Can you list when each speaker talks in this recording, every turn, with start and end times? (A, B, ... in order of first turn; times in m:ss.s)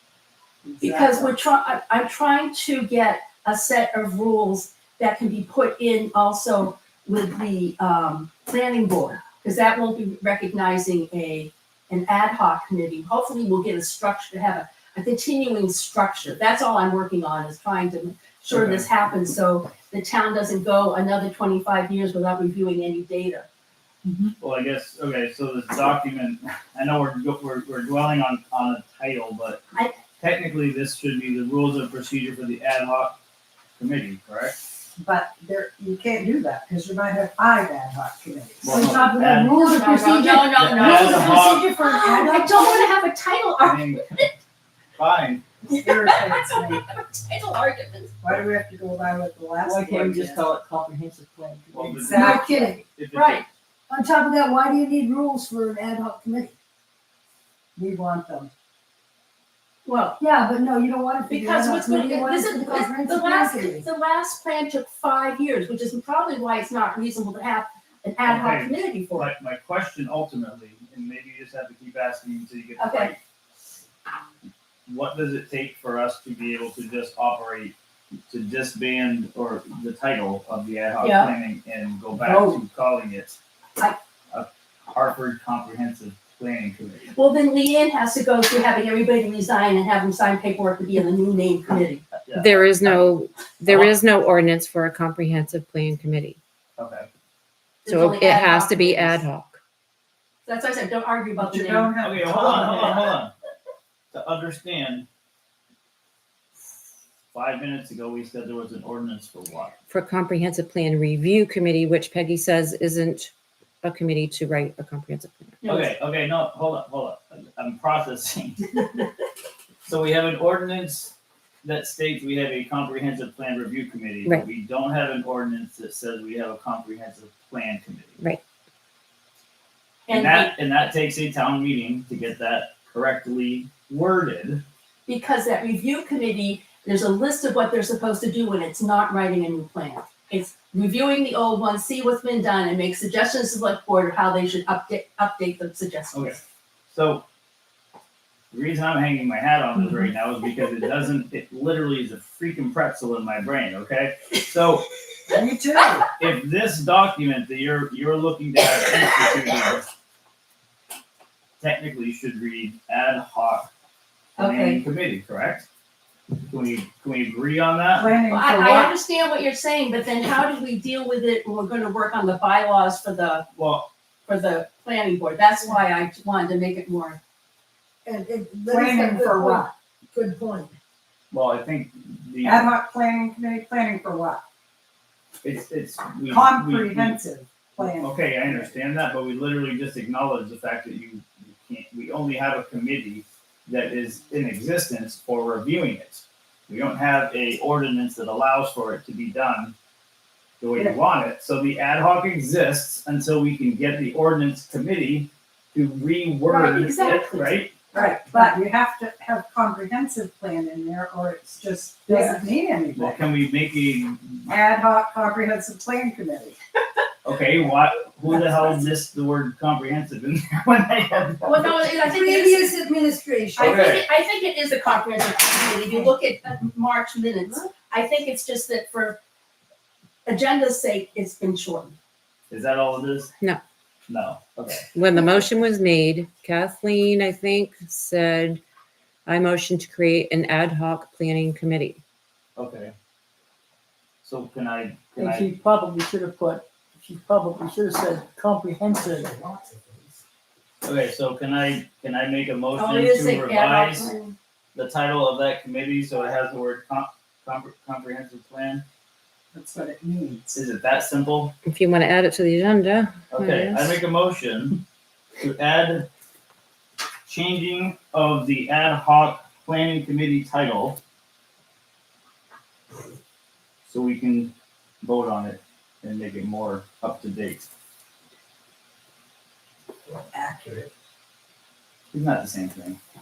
0:00.6-0:01.4 A
0:00.8-0:23.4 B
0:18.5-0:18.9 C
0:24.0-0:24.3 A
0:24.4-0:29.6 C
0:30.2-0:33.2 C
0:33.8-0:34.6 C
0:35.0-0:38.9 A
0:38.6-0:39.6 C
0:38.7-0:40.6 D
0:39.6-0:44.4 B
0:40.5-0:41.7 C
0:40.8-0:42.9 A
0:43.6-0:44.2 C
0:45.0-0:45.4 C
0:45.6-0:48.1 B
0:45.8-0:46.8 A
0:48.2-0:50.5 A
0:49.6-0:51.8 E
0:49.7-0:53.5 C
0:51.8-0:52.7 A
0:52.1-0:52.8 D
0:53.1-0:53.4 B
0:53.9-0:56.5 D
0:57.8-0:58.2 D
0:59.8-1:00.2 B
1:00.2-1:03.8 D
1:01.3-1:09.3 B
1:08.2-1:13.2 C
1:12.8-1:13.1 B
1:14.9-1:17.7 C
1:18.3-1:23.4 C
1:21.0-1:21.3 B
1:22.2-1:22.6 B
1:24.3-1:27.1 C
1:27.1-1:32.0 B
1:32.1-1:33.1 C
1:32.3-1:36.4 F
1:33.7-1:33.9 C
1:36.8-1:37.1 C
1:37.8-1:39.2 B
1:37.9-1:39.6 F
1:40.4-1:42.0 B
1:41.4-1:43.2 A
1:42.0-1:43.3 C
1:44.1-1:45.0 C
1:47.3-1:49.7 C
1:49.9-1:55.6 F
1:55.6-1:55.9 B
1:55.6-1:58.9 C
1:59.8-2:08.2 C
2:10.1-2:10.5 B
2:10.1-2:14.6 C
2:15.1-2:26.3 B
2:26.9-2:27.2 C
2:28.5-2:34.9 C
2:35.3-2:36.1 A
2:36.2-2:39.8 C
2:41.6-2:43.7 C
2:44.4-2:45.7 C
2:44.4-2:44.8 B
2:46.4-2:48.1 C
2:48.0-2:48.9 A
2:48.3-2:53.4 B
2:53.6-2:53.9 C
2:54.2-2:57.2 B
2:58.0-3:00.7 D
2:58.7-2:59.7 A
3:01.3-3:02.7 C
3:02.4-3:04.4 A
3:05.4-3:07.2 C
3:06.3-3:08.7 A
3:07.8-3:19.7 C
3:20.6-3:27.7 C
3:26.4-3:28.5 B
3:27.9-3:33.2 A
3:32.1-3:32.4 B
3:33.0-3:34.5 C
3:34.5-3:36.6 A
3:37.2-3:41.9 C
3:41.4-3:42.7 B
3:42.0-3:43.7 D
3:43.6-3:49.2 B
3:43.6-3:44.0 C
3:50.2-3:52.0 B
3:52.5-3:53.3 C
3:54.1-3:54.9 C
3:54.9-3:58.6 F
3:59.2-4:02.0 F
4:02.6-4:02.9 C
4:04.2-4:05.5 C
4:05.2-4:09.5 E
4:10.8-4:14.1 C
4:12.7-4:14.4 B
4:14.7-4:18.8 C
4:19.5-4:20.6 A
4:20.5-4:21.5 C
4:21.6-4:24.0 F
4:23.3-4:24.8 C
4:25.4-4:26.1 C
4:27.2-4:31.0 C
4:33.8-4:37.7 C
4:40.1-4:40.9 A
4:42.1-4:43.0 C